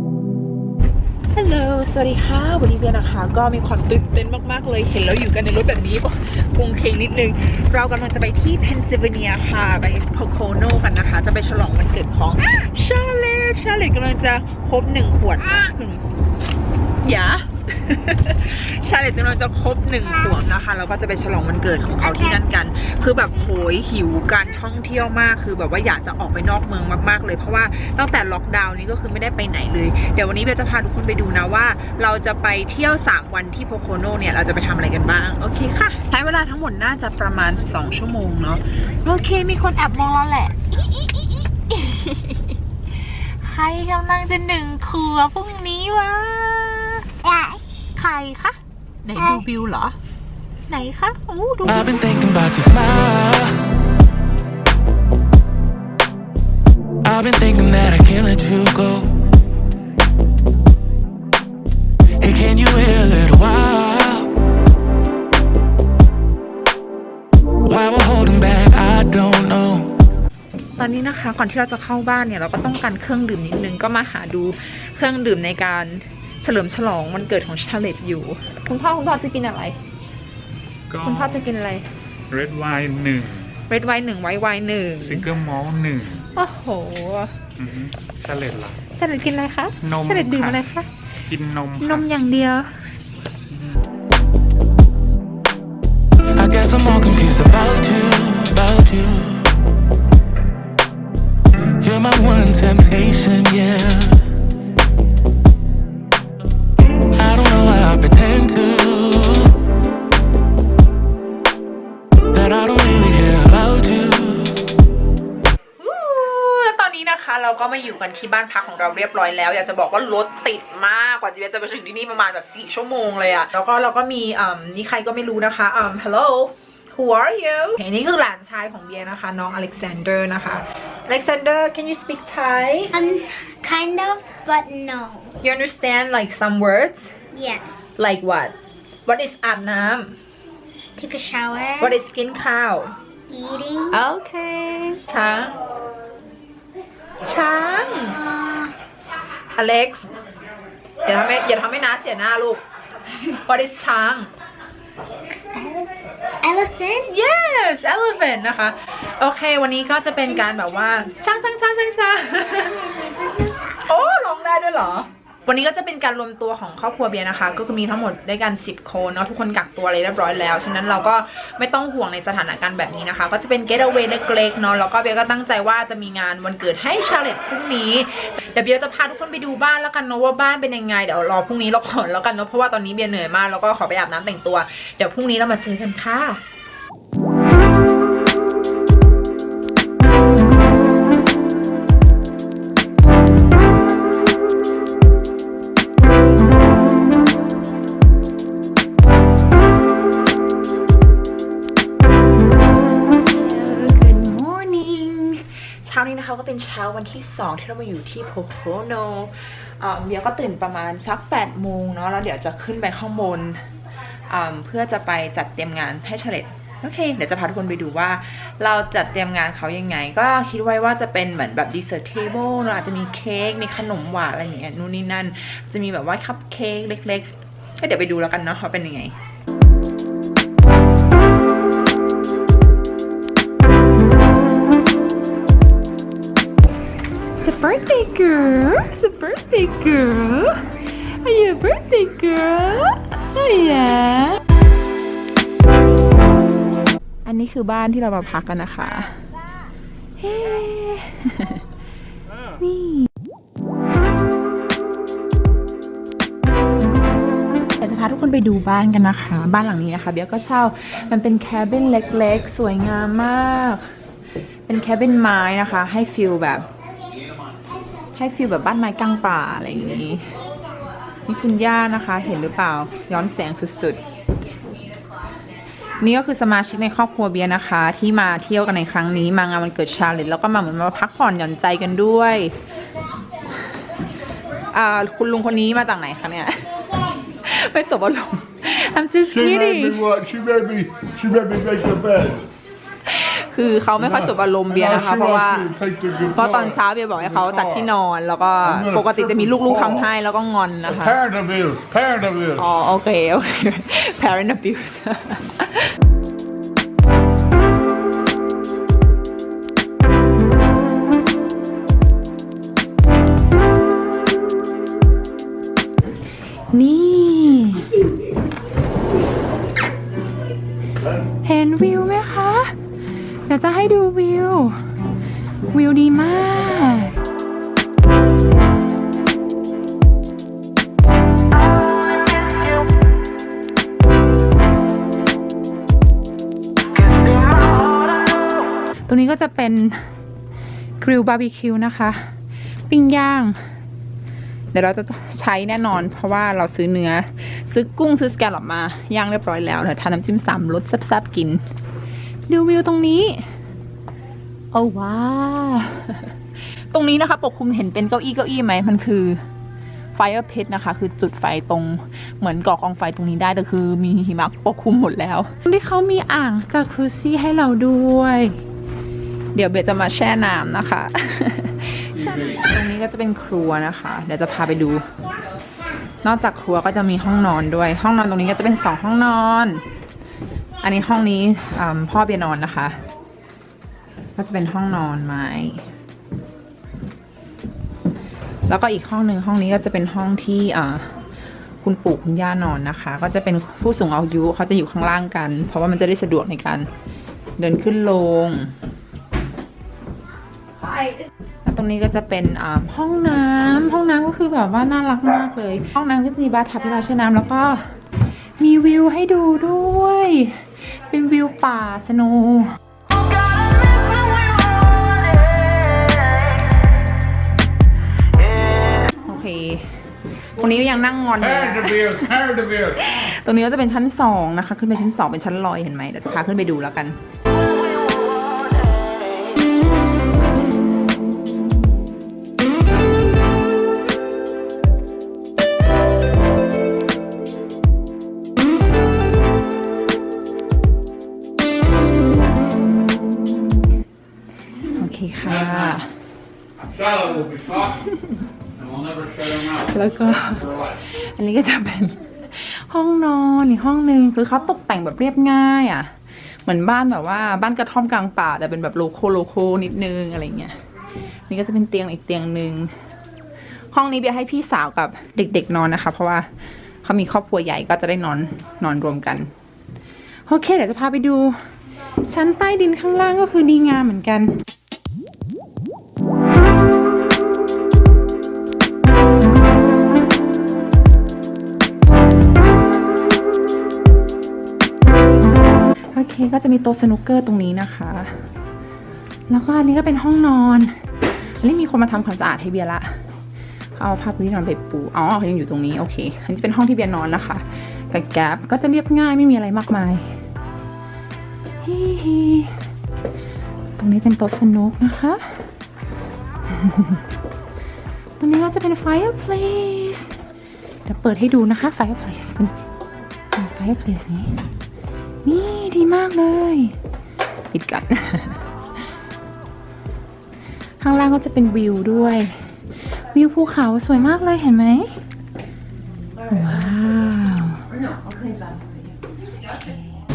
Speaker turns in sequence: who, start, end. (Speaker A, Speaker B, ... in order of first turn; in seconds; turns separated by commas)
Speaker A: 1.3-16.0, Speaker A: 17.0-47.1, Speaker B: 47.2-47.8, Speaker A: 48.0-50.0, Speaker A: 50.7-52.1, Speaker C: 51.8-53.6, Speaker C: 57.0-59.1, Speaker C: 62.2-64.3, Speaker C: 67.7-69.9, Speaker A: 70.8-79.8, Speaker D: 80.9-81.4, Speaker A: 81.0-81.8, Speaker D: 82.3-83.5, Speaker A: 83.7-85.3, Speaker D: 85.0-86.3, Speaker A: 86.3-87.4, Speaker D: 87.6-88.8, Speaker A: 89.0-90.9, Speaker D: 89.8-90.6, Speaker D: 91.3-92.0, Speaker A: 91.8-92.7, Speaker C: 96.4-99.5, Speaker C: 101.8-104.2, Speaker C: 107.2-109.5, Speaker C: 112.3-114.6, Speaker A: 115.8-133.0, Speaker B: 132.9-135.3, Speaker A: 135.4-137.1, Speaker B: 137.3-137.6, Speaker A: 138.0-138.5, Speaker A: 139.1-140.2, Speaker B: 141.0-142.0, Speaker A: 141.8-142.9, Speaker B: 143.3-144.0, Speaker A: 143.9-145.6, Speaker A: 147.2-148.2, Speaker B: 148.2-148.7, Speaker A: 149.6-150.1, Speaker A: 151.0-152.6, Speaker A: 153.3-154.3, Speaker B: 155.5-155.9, Speaker B: 156.4-157.1, Speaker A: 157.0-162.8, Speaker B: 162.6-163.7, Speaker A: 163.8-186.4, Speaker A: 203.2-213.6, Speaker A: 214.3-229.1, Speaker A: 237.4-244.4, Speaker A: 247.2-249.2, Speaker A: 250.2-251.6, Speaker A: 252.6-253.1, Speaker A: 257.8-263.9, Speaker A: 264.7-266.6, Speaker A: 268.1-270.3, Speaker A: 271.3-274.0, Speaker A: 276.0-282.5, Speaker A: 284.7-286.6, Speaker A: 287.3-290.0, Speaker E: 289.3-292.5, Speaker A: 293.1-295.7, Speaker E: 294.2-297.9, Speaker A: 296.3-301.2, Speaker E: 298.8-300.1, Speaker E: 300.9-302.6, Speaker A: 302.6-305.9, Speaker A: 316.7-318.0, Speaker A: 321.4-322.8, Speaker A: 323.5-324.8, Speaker A: 325.7-327.1, Speaker A: 339.1-340.0, Speaker A: 341.0-342.3, Speaker A: 342.9-343.6, Speaker A: 344.7-351.6, Speaker A: 352.5-353.4, Speaker A: 354.7-356.4, Speaker A: 356.9-359.4, Speaker A: 360.1-368.6, Speaker A: 369.6-375.1, Speaker A: 376.2-379.8, Speaker A: 380.8-383.0, Speaker A: 384.4-385.9, Speaker A: 388.7-391.1, Speaker A: 391.8-396.9, Speaker A: 397.6-398.7, Speaker A: 401.6-407.9, Speaker A: 408.6-412.8, Speaker A: 419.2-419.9, Speaker A: 420.6-422.3, Speaker E: 421.4-423.0, Speaker A: 423.0-427.2, Speaker A: 444.9-446.1, Speaker E: 445.7-445.9, Speaker E: 446.9-448.0, Speaker E: 448.8-450.9, Speaker A: 449.8-456.1, Speaker A: 456.6-460.8, Speaker A: 461.5-462.9, Speaker A: 463.9-466.5, Speaker A: 467.0-469.5, Speaker A: 470.5-471.6, Speaker A: 472.3-474.6, Speaker A: 486.1-488.3, Speaker A: 489.5-490.9, Speaker A: 491.6-493.1, Speaker A: 493.9-500.3, Speaker A: 501.8-502.7, Speaker A: 504.0-505.5, Speaker A: 506.7-507.2, Speaker A: 508.4-510.4, Speaker A: 511.1-512.7, Speaker A: 513.5-514.6, Speaker A: 515.4-517.0, Speaker A: 517.7-518.6, Speaker A: 521.0-522.7, Speaker A: 523.2-525.2, Speaker A: 526.5-527.9